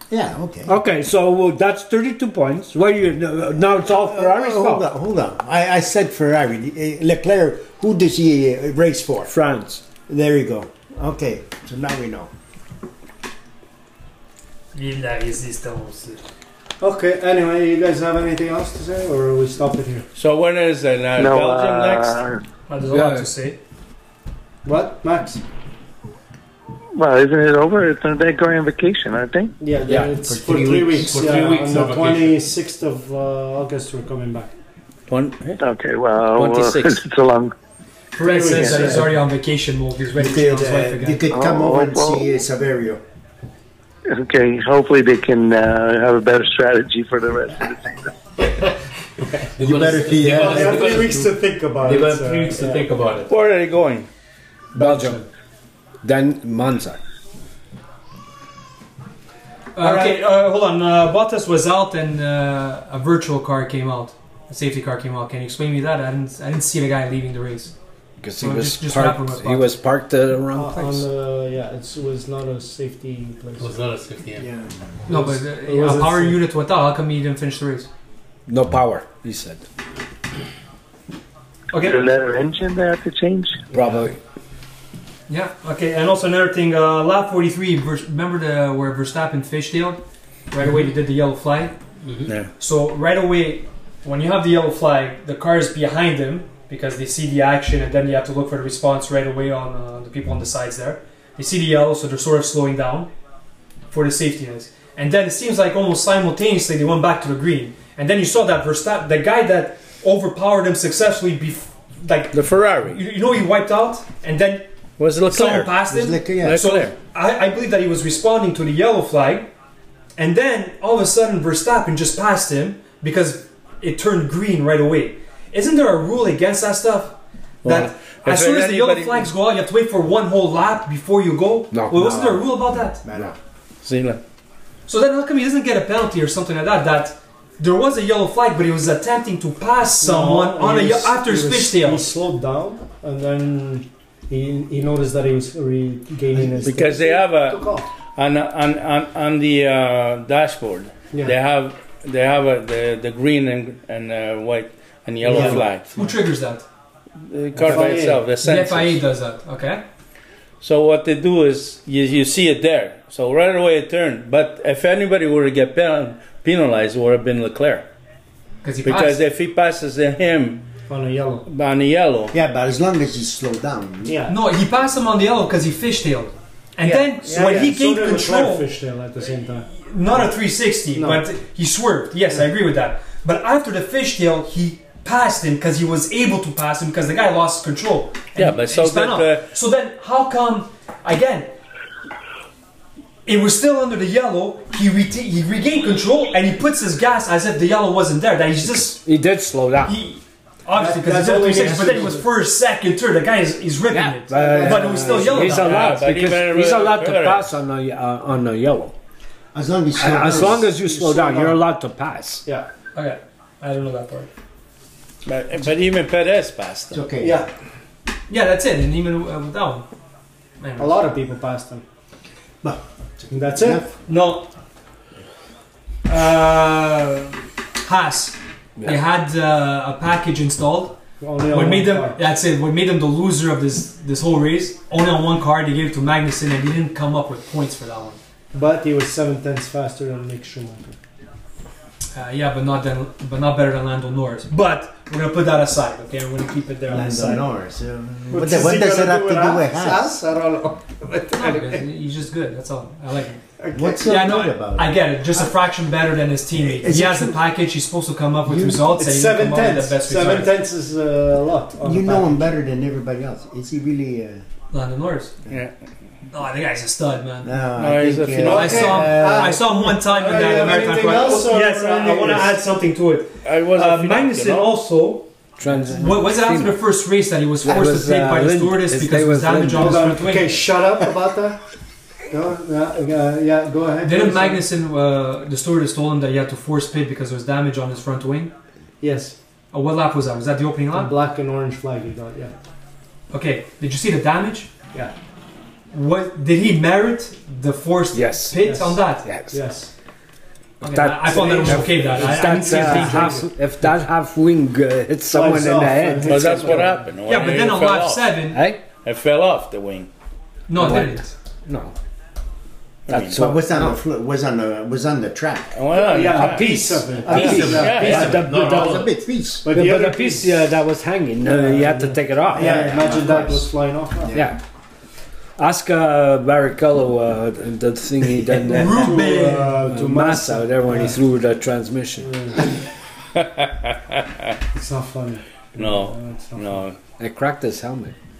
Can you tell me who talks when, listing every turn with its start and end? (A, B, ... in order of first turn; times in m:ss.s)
0:00.1-0:00.7 A
0:00.6-0:04.9 B
0:03.9-0:09.3 A
0:09.3-0:09.8 B
0:10.1-0:12.3 A
0:14.7-0:16.2 C
0:16.8-0:20.0 D
0:20.2-0:22.2 E
0:21.2-0:22.4 F
0:22.7-0:23.6 C
0:22.9-0:23.3 B
0:24.6-0:25.4 D
0:27.0-0:29.5 F
0:29.6-0:34.5 D
0:29.8-0:31.2 B
0:31.0-0:32.4 G
0:35.1-0:35.6 E
0:35.6-0:37.5 F
0:36.3-0:37.0 E
0:38.1-0:41.2 C
0:38.2-0:39.1 D
0:38.5-0:39.0 F
0:40.1-0:43.0 A
0:41.3-0:42.3 F
0:44.1-0:47.9 F
0:49.4-0:53.3 G
0:49.6-0:51.0 A
0:50.3-0:52.8 D
0:53.3-0:54.1 E
0:54.7-0:55.2 B
0:54.8-0:55.3 D
0:56.0-0:57.0 B
0:59.7-1:07.7 C
0:59.8-1:00.3 D
1:08.2-1:11.0 B
1:08.4-1:09.8 C
1:10.5-1:13.8 D
1:13.6-1:14.5 G
1:14.4-1:14.8 A
1:15.1-1:17.9 C
1:15.1-1:16.4 D
1:18.5-1:19.6 B
1:21.7-1:22.0 C
1:21.7-1:23.7 F
1:23.7-1:24.2 B
1:25.3-1:31.8 C
1:32.0-1:32.3 G
1:32.6-1:43.1 C
1:43.9-1:54.7 C
1:52.3-1:53.0 E
1:55.0-1:55.7 E
1:55.3-1:59.5 C
1:55.8-1:56.7 A
1:56.4-1:56.9 E
2:00.2-2:13.0 C
2:07.6-2:09.3 E
2:11.7-2:12.4 B
2:13.0-2:13.4 A
2:13.8-2:14.2 E
2:14.9-2:22.1 C
2:20.0-2:27.9 D
2:26.6-2:35.9 E
2:35.2-2:36.1 D
2:35.7-2:36.7 C
2:37.3-2:39.0 E
2:37.5-2:38.2 D
2:38.4-2:39.8 C
2:40.6-2:47.8 E
2:48.6-2:49.2 C
2:48.8-2:50.6 E
2:50.9-2:51.4 D
2:51.5-2:52.3 E
2:52.3-2:54.2 A
2:54.0-2:54.3 D
2:54.3-2:58.7 C
2:56.8-2:59.7 D
2:59.7-3:11.5 C
3:00.9-3:01.2 D
3:08.4-3:09.4 E
3:13.2-3:19.0 C
3:19.0-3:20.0 B
3:19.8-3:26.0 C
3:20.8-3:22.2 D
3:23.9-3:29.0 B
3:24.3-3:25.8 D
3:25.7-3:27.4 E
3:29.5-3:30.8 A
3:30.0-3:32.4 B
3:30.7-3:31.6 D
3:32.9-3:34.3 C
3:35.2-3:37.0 E
3:36.9-3:37.4 A
3:37.2-3:37.5 D
3:38.3-3:39.9 C
3:40.6-3:41.1 C
3:40.8-3:41.8 D
3:42.6-3:43.9 A
3:43.3-3:43.9 D
3:44.1-3:44.5 C
3:46.0-3:51.0 C
3:51.2-3:52.2 D
3:51.5-3:58.2 C
3:58.5-4:00.9 D
4:02.1-4:07.4 C
4:06.9-4:10.1 A
4:08.3-4:11.8 D
4:11.3-4:13.4 C
4:13.6-4:14.1 D
4:13.7-4:15.0 A
4:14.0-4:20.6 C
4:16.5-4:17.4 A
4:18.5-4:18.9 A
4:18.8-4:22.5 D
4:21.8-4:24.4 A
4:24.7-4:25.3 C
4:26.3-4:27.5 C
4:27.4-4:29.6 A
4:27.8-4:29.2 E
4:28.4-4:32.6 D
4:28.4-4:35.3 C
4:30.4-4:30.9 A
4:33.4-4:34.7 E
4:35.6-4:36.8 B
4:35.9-4:40.6 C
4:37.6-4:40.4 B
4:37.7-4:38.0 A
4:39.7-4:41.6 D
4:42.3-4:44.6 D
4:44.0-4:48.5 C
4:49.0-4:49.4 D
4:49.7-4:51.1 C
4:50.9-4:52.5 D
4:53.3-4:54.7 C
4:55.9-4:59.3 C
4:58.1-4:58.6 B
4:58.6-4:59.9 D
4:59.2-4:59.6 B
5:00.8-5:06.7 B
5:00.8-5:03.4 C
5:01.2-5:03.5 D
5:05.3-5:07.0 D
5:06.2-5:08.3 E
5:07.2-5:08.6 C
5:08.5-5:08.8 B
5:09.0-5:10.1 E
5:10.7-5:11.3 C
5:10.7-5:11.9 B
5:13.1-5:13.4 E
5:13.1-5:14.0 B
5:13.3-5:15.8 A
5:15.7-5:16.7 E
5:15.9-5:18.5 D
5:16.2-5:19.1 B
5:17.3-5:19.1 G
5:17.3-5:18.4 E
5:18.5-5:19.6 A
5:19.6-5:20.7 D
5:19.6-5:22.9 B
5:21.4-5:24.4 D
5:22.5-5:24.5 A
5:24.3-5:24.6 B
5:25.6-5:32.3 B
5:28.7-5:29.8 C
5:28.8-5:31.2 D
5:32.2-5:32.8 D
5:33.3-5:34.5 E
5:34.7-5:36.8 D
5:35.8-5:37.0 E
5:37.2-5:38.1 B